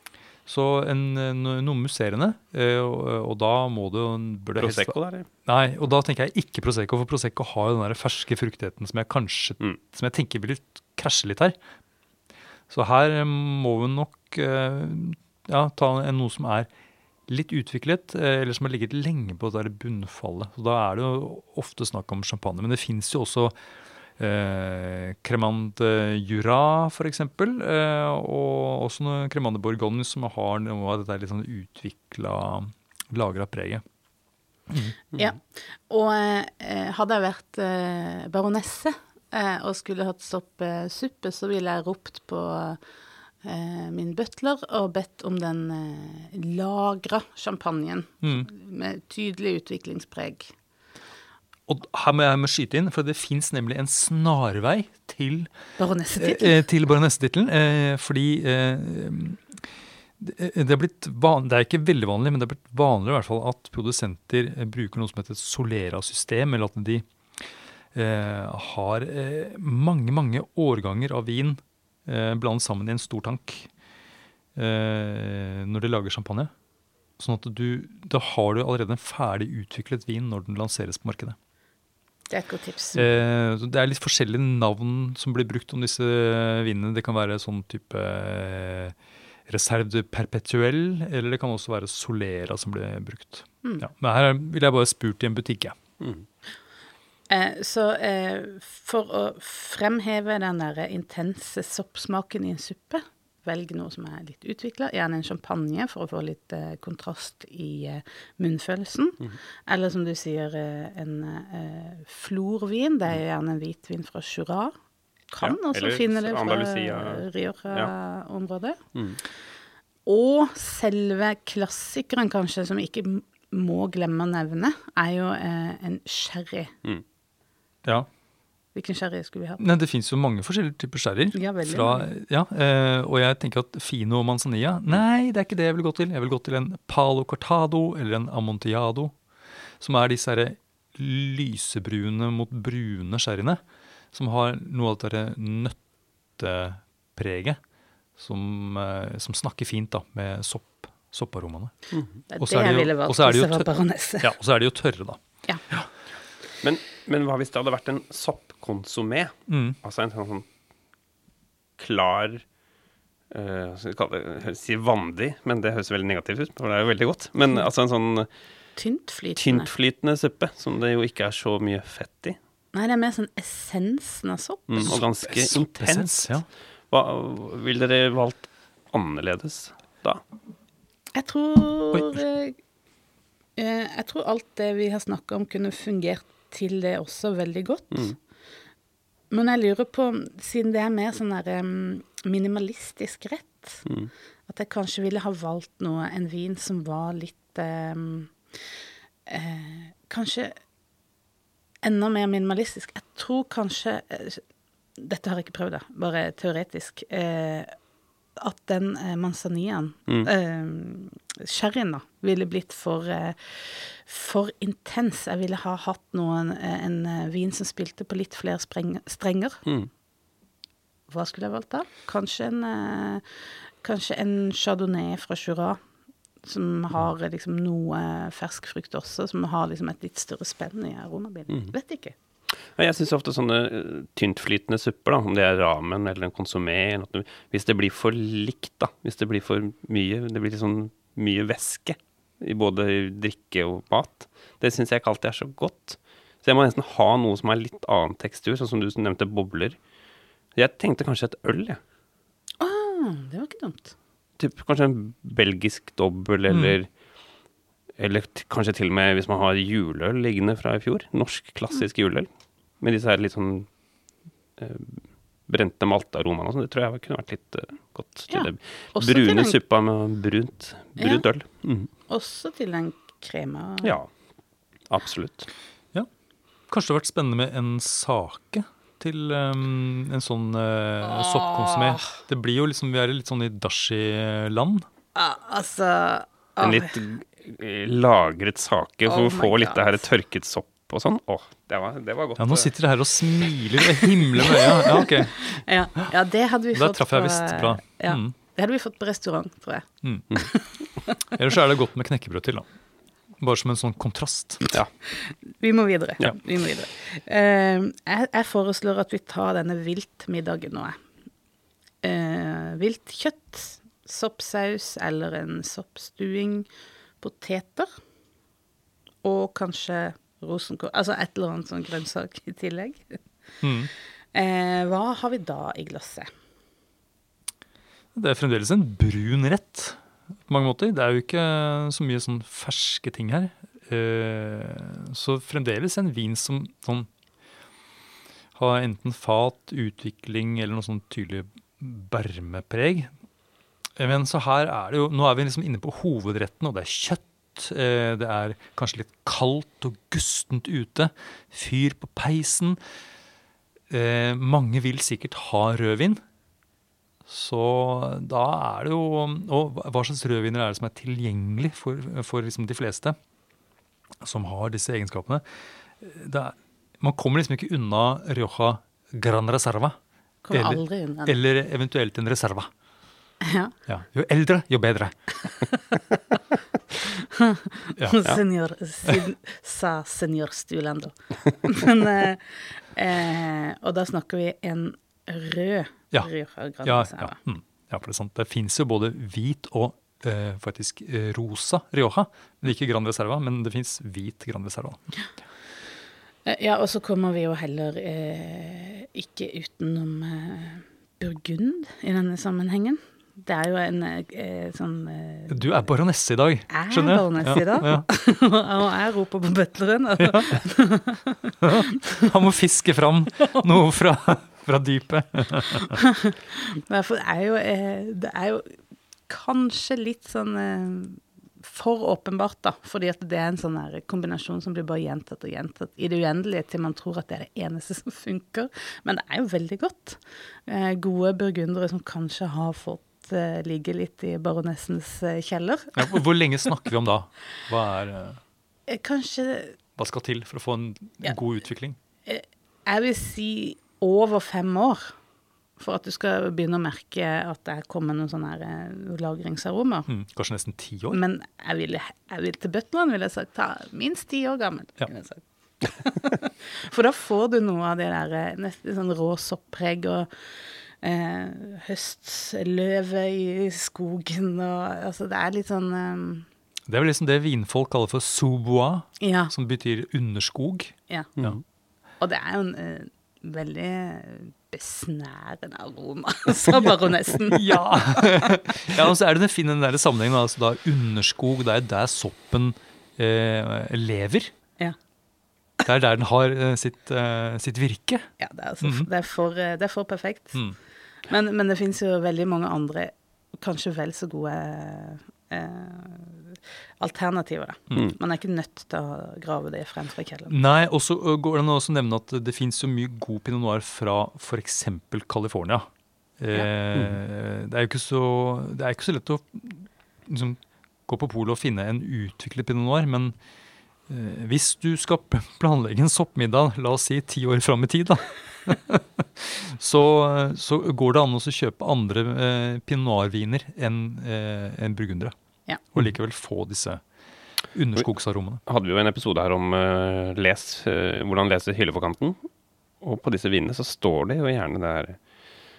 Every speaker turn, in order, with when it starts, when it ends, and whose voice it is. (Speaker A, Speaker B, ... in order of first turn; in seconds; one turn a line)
Speaker A: 0.5-4.9
Speaker B: 4.6-5.3
Speaker A: 5.5-11.6
Speaker A: 12.7-16.7
Speaker A: 17.3-23.6
Speaker A: 24.2-33.8
Speaker A: 34.7-35.0
Speaker C: 35.2-42.8
Speaker C: 43.4-50.5
Speaker A: 48.2-48.5
Speaker A: 51.7-55.5
Speaker C: 55.8-56.6
Speaker A: 56.2-59.7
Speaker A: 60.2-73.7
Speaker A: 74.5-76.5
Speaker A: 77.2-81.4
Speaker C: 82.3-83.1
Speaker A: 83.0-89.0
Speaker A: 89.5-95.8
Speaker B: 96.0-96.3
Speaker C: 97.3-114.8
Speaker C: 115.3-118.8
Speaker B: 115.4-117.9
Speaker B: 118.9-119.2
Speaker C: 120.1-126.7
Speaker C: 128.8-129.6
Speaker A: 129.6-139.2
Speaker C: 131.3-132.1
Speaker A: 139.8-143.6
Speaker A: 144.1-145.8
Speaker A: 146.4-147.6
Speaker A: 148.2-151.8
Speaker B: 151.9-152.2
Speaker C: 152.3-154.3
Speaker A: 152.4-153.7
Speaker A: 154.2-155.9
Speaker B: 156.6-160.5
Speaker A: 159.5-159.8
Speaker B: 161.8-162.4
Speaker B: 163.3-168.3
Speaker C: 168.8-169.7
Speaker B: 169.4-172.4
Speaker C: 172.7-174.9
Speaker B: 174.7-180.2
Speaker A: 174.9-176.5
Speaker C: 181.2-182.6
Speaker A: 181.9-182.2
Speaker C: 183.6-188.1
Speaker C: 189.3-193.9
Speaker B: 193.9-194.1
Speaker C: 194.5-198.4
Speaker C: 199.3-200.6
Speaker C: 201.8-204.4
Speaker C: 205.0-207.7
Speaker C: 208.4-219.6
Speaker B: 219.7-219.9
Speaker C: 221.1-223.2
Speaker C: 223.8-225.8
Speaker C: 226.4-232.1
Speaker B: 232.8-249.8
Speaker B: 250.6-251.8
Speaker C: 252.6-253.9
Speaker B: 254.4-256.9
Speaker A: 256.5-256.8
Speaker B: 258.0-262.3
Speaker B: 262.8-263.7
Speaker B: 264.6-271.9
Speaker C: 268.3-269.6
Speaker C: 271.0-271.2
Speaker C: 272.1-273.9
Speaker B: 273.8-274.1
Speaker B: 274.9-275.5
Speaker A: 276.7-284.9
Speaker C: 281.0-282.1
Speaker C: 285.1-286.9
Speaker B: 286.6-292.7
Speaker C: 289.1-290.1
Speaker A: 292.4-295.4
Speaker C: 294.4-301.1
Speaker A: 296.7-298.4
Speaker A: 300.0-300.3
Speaker A: 301.3-302.7
Speaker A: 303.4-304.7
Speaker C: 305.1-311.0
Speaker C: 312.0-316.7
Speaker C: 317.2-317.9
Speaker C: 319.2-323.2
Speaker A: 323.6-323.9
Speaker C: 324.3-326.3
Speaker A: 328.1-337.1
Speaker A: 338.6-343.1
Speaker A: 344.0-352.8
Speaker A: 353.9-356.2
Speaker A: 357.3-363.2
Speaker A: 364.2-365.4
Speaker A: 366.0-370.0
Speaker C: 370.4-371.4
Speaker A: 370.5-372.7
Speaker C: 373.4-373.7
Speaker A: 373.9-375.3
Speaker C: 377.0-387.4
Speaker A: 378.0-378.3
Speaker A: 386.8-395.1
Speaker C: 396.5-405.9
Speaker A: 405.5-408.1
Speaker C: 406.7-412.3
Speaker A: 410.2-410.6
Speaker A: 411.6-416.0
Speaker C: 415.9-436.2
Speaker A: 435.9-438.4
Speaker C: 438.9-439.8
Speaker A: 440.0-442.0
Speaker C: 442.2-445.1
Speaker C: 445.8-450.1
Speaker A: 450.1-451.2
Speaker C: 451.1-460.3
Speaker C: 461.0-466.5
Speaker A: 466.9-471.6
Speaker C: 469.2-469.5
Speaker B: 471.4-471.6
Speaker C: 472.2-478.6
Speaker A: 477.5-484.5
Speaker A: 485.9-488.3
Speaker C: 488.4-490.7
Speaker A: 488.8-489.1
Speaker C: 491.3-500.5
Speaker A: 500.5-505.9
Speaker A: 506.4-513.4
Speaker A: 514.1-525.3
Speaker A: 525.9-527.0
Speaker A: 527.7-528.6
Speaker B: 528.7-532.4
Speaker B: 533.0-535.2